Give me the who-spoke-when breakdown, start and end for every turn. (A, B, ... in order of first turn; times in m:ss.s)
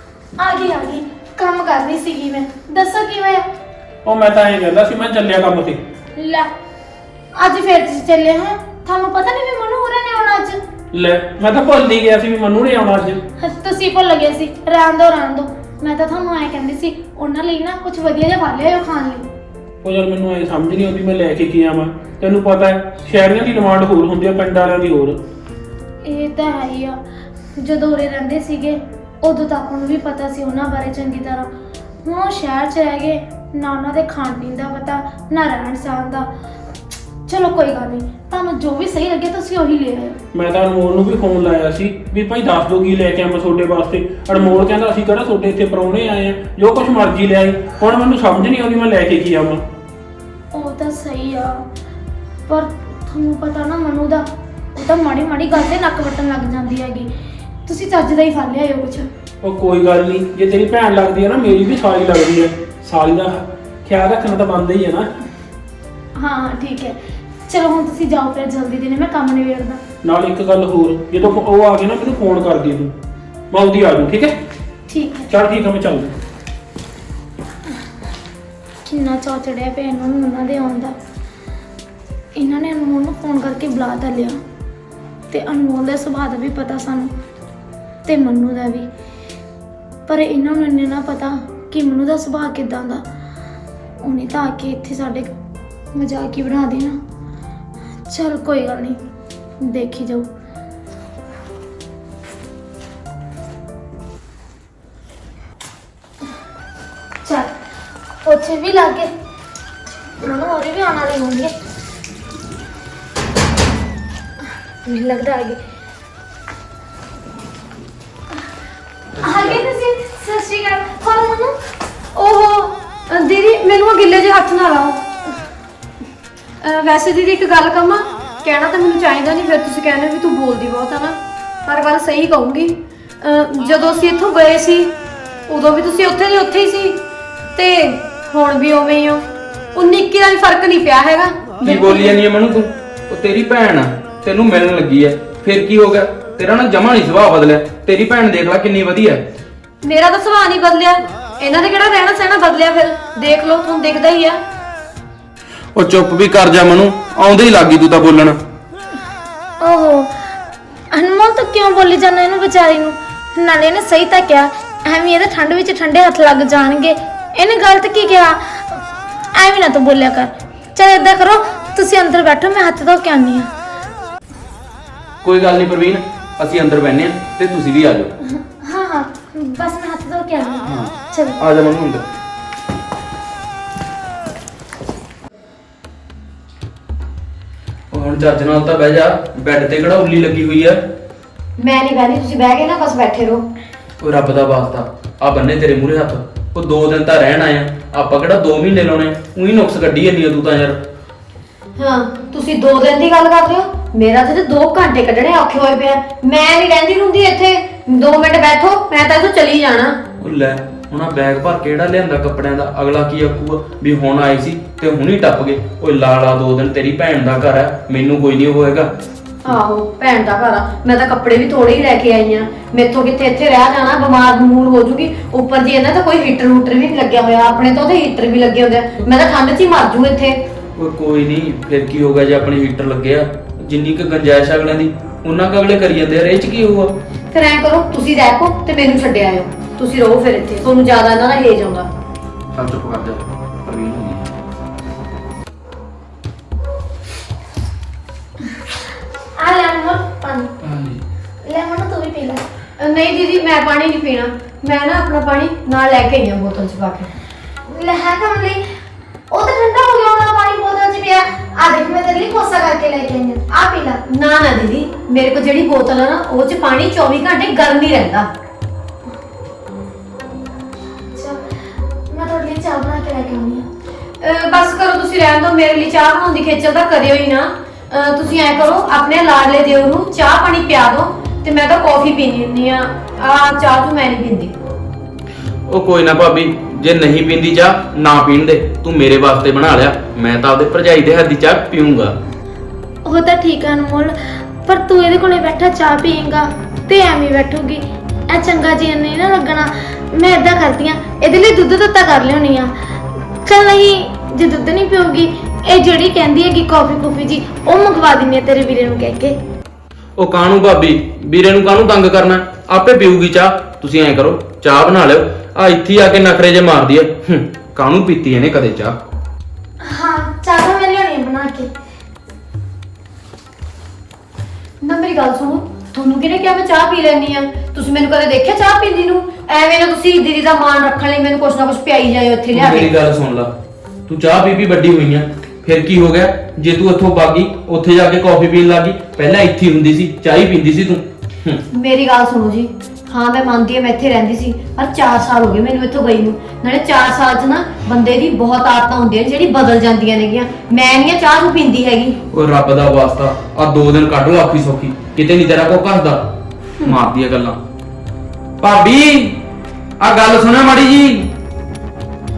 0:00.4-0:03.4 A
0:04.0-0:05.8 B
0:06.2-0:06.5 A
0:07.3-0:10.6 A
0:10.9-0:13.2 B
0:13.4-0:19.3 A
0:19.8-0:25.2 B
0:26.0-0:27.0 A
0:27.6-0:31.5 A
0:32.0-0:36.3 A
0:37.3-0:40.2 A
0:40.3-0:49.6 B
0:50.5-0:51.6 A
0:52.5-0:57.1 A
0:57.6-0:59.1 A
0:59.4-1:05.1 B
1:06.1-1:07.0 A
1:07.5-1:09.8 A
1:10.0-1:12.9 B
1:13.5-1:14.4 B
1:14.9-1:15.3 A
1:15.3-1:16.1 B
1:18.8-1:21.0 A
1:22.4-1:24.4 A
1:25.3-1:27.1 A
1:28.0-1:28.9 A
1:30.1-1:33.0 A
1:34.0-1:35.3 A
1:35.9-1:37.0 A
1:38.0-1:39.0 A
1:39.6-1:40.3 A
1:47.2-1:47.5 A
1:48.2-1:49.1 A
1:50.2-1:51.5 A
1:54.8-1:55.6 A
1:59.1-1:59.6 C
1:59.2-2:01.6 A
2:02.1-2:05.0 D
2:06.6-2:14.9 D
2:15.5-2:17.0 D
2:17.6-2:22.2 D
2:21.6-2:29.2 C
2:29.8-2:34.4 D
2:35.7-2:38.4 C
2:39.6-2:40.1 A
2:40.9-2:48.8 A
2:49.3-2:53.5 A
2:55.2-2:58.1 C
2:58.3-3:01.4 A
3:00.6-3:02.0 C
3:07.9-3:10.9 C
3:11.6-3:13.4 D
3:14.0-3:20.8 C
3:21.8-3:30.0 D
3:30.2-3:38.9 C
3:39.4-3:50.4 D
3:50.8-3:56.9 C
3:57.3-4:01.9 D
4:02.5-4:04.3 C
4:09.4-4:10.5 A
4:10.6-4:11.0 C
4:11.4-4:12.4 A
4:12.8-4:17.1 D
4:17.7-4:18.6 A
4:19.3-4:24.0 A
4:24.0-4:28.3 D
4:31.1-4:31.4 A
4:32.1-4:33.6 A
4:34.2-4:44.5 D
4:45.7-4:52.2 C
4:53.0-5:02.7 A
5:03.4-5:09.4 A
5:10.2-5:19.0 C
5:19.8-5:21.7 A
5:24.8-5:32.9 D
5:32.5-5:33.5 C
5:34.1-5:41.6 C
5:41.7-5:52.2 D
5:52.3-5:56.2 C
5:56.8-5:57.6 C
5:58.6-5:59.4 C
6:00.0-6:01.3 C